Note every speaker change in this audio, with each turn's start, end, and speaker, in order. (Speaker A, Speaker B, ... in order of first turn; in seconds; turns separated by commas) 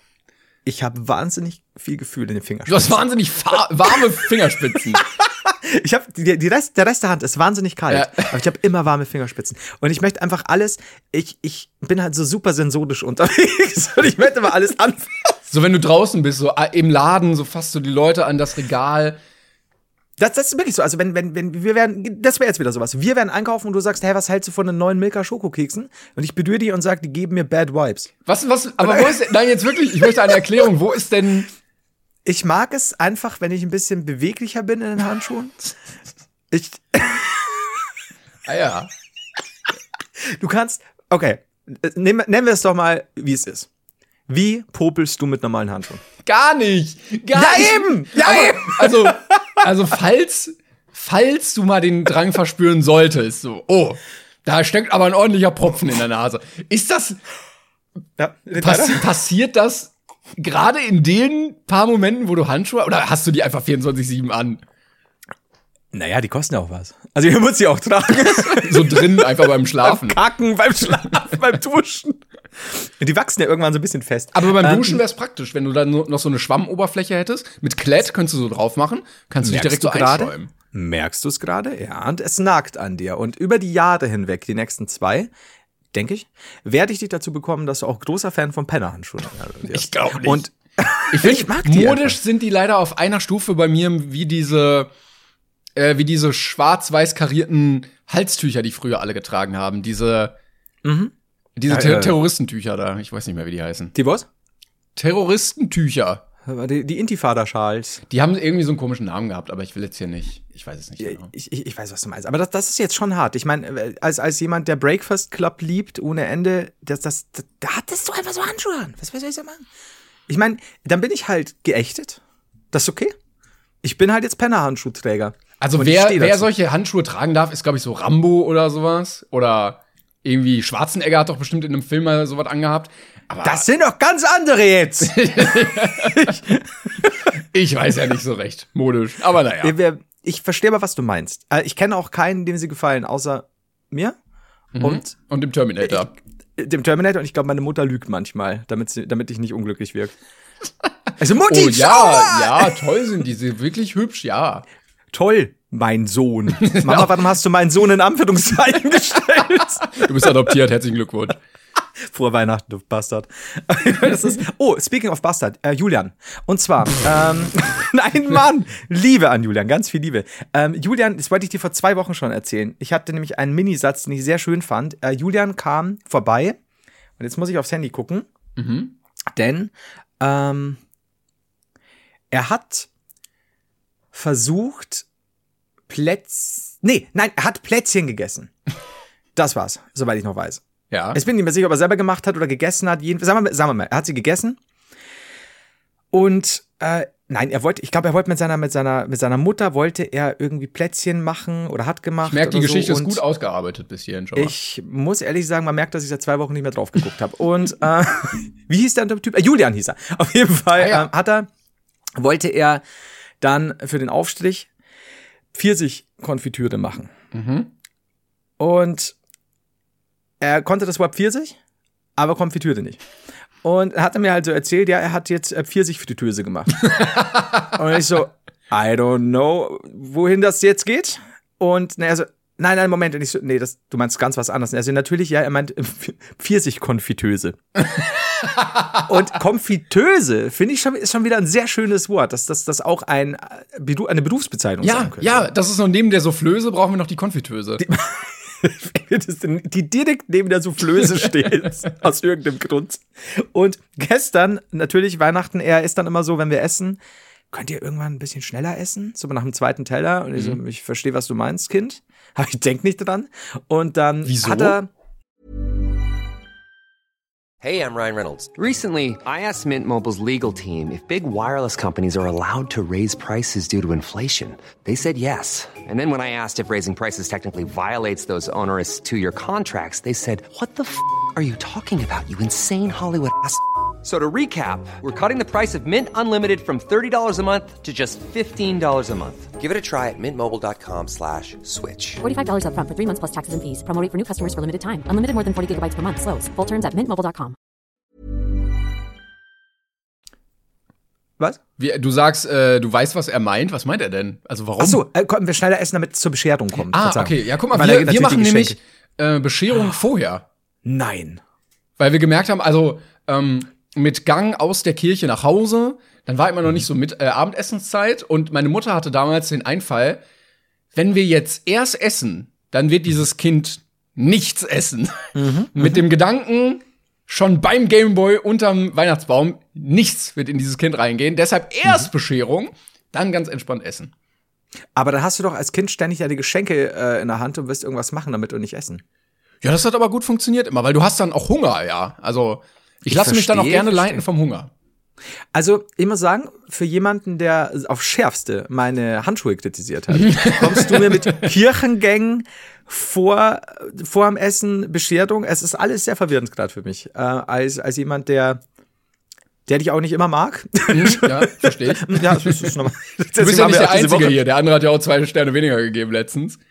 Speaker A: 0.6-4.0, Speaker B: 2.7-5.0, Speaker A: 4.8-15.4, Speaker B: 7.9-8.3, Speaker B: 15.5-19.2, Speaker A: 20.2-28.1, Speaker B: 28.2-31.5, Speaker A: 28.8-29.1, Speaker A: 32.2-35.7, Speaker A: 36.5-37.8, Speaker B: 38.5-38.9, Speaker A: 40.2-43.7, Speaker A: 44.3-46.0, Speaker B: 46.2-57.2, Speaker A: 47.3-49.4, Speaker A: 58.2-59.1, Speaker B: 58.6-64.6, Speaker A: 65.9-75.0, Speaker B: 68.3-70.2, Speaker B: 74.3-80.5, Speaker A: 79.4-85.3, Speaker A: 85.9-92.2, Speaker B: 89.7-90.5, Speaker B: 91.1-94.9, Speaker B: 95.8-100.3, Speaker A: 100.8-101.1, Speaker B: 101.6-103.9, Speaker A: 101.7-102.2, Speaker A: 103.9-104.3, Speaker B: 105.0-106.2, Speaker A: 106.5-108.0, Speaker B: 108.1-111.3, Speaker A: 111.0-119.6, Speaker A: 120.3-122.2, Speaker A: 122.7-123.2, Speaker A: 123.8-126.5, Speaker B: 125.6-133.6, Speaker A: 133.4-136.6, Speaker B: 135.0-136.4, Speaker B: 137.3-139.8, Speaker A: 139.6-144.2, Speaker B: 144.7-146.1, Speaker A: 144.8-145.1, Speaker A: 146.6-150.1, Speaker A: 151.2-152.8, Speaker B: 151.4-154.6, Speaker A: 155.1-160.3, Speaker B: 156.6-157.2, Speaker B: 159.9-161.4, Speaker A: 162.0-176.6, Speaker A: 177.2-178.3, Speaker B: 178.6-178.9, Speaker A: 179.3-180.8, Speaker A: 182.3-182.9, Speaker A: 184.1-185.1, Speaker A: 185.9-188.5, Speaker A: 189.3-194.6, Speaker B: 190.9-191.2, Speaker A: 196.1-203.2, Speaker B: 202.2-204.5, Speaker A: 204.3-211.5, Speaker B: 210.8-211.1, Speaker A: 212.2-212.8, Speaker A: 213.4-214.7, Speaker A: 215.5-217.1, Speaker B: 217.3-217.7, Speaker A: 218.6-219.2, Speaker A: 220.4-221.6, Speaker A: 222.2-223.0, Speaker A: 223.6-227.1, Speaker B: 227.0-227.5, Speaker A: 227.7-237.9, Speaker A: 239.0-245.5, Speaker B: 244.8-247.8, Speaker A: 247.8-257.0, Speaker A: 257.5-264.9, Speaker B: 264.2-264.8, Speaker C: 267.6-292.2, Speaker D: 292.2-297.5, Speaker B: 301.8-305.1, Speaker A: 304.8-308.8, Speaker B: 306.9-310.4, Speaker A: 310.8-311.4, Speaker B: 312.0-320.2, Speaker B: 320.9-334.1, Speaker A: 325.3-326.0, Speaker A: 334.9-339.0, Speaker B: 339.6-344.7, Speaker A: 343.1-344.2, Speaker A: 345.5-358.6, Speaker B: 350.2-351.1, Speaker A: 359.7-364.4, Speaker B: 360.9-362.7, Speaker B: 363.4-366.6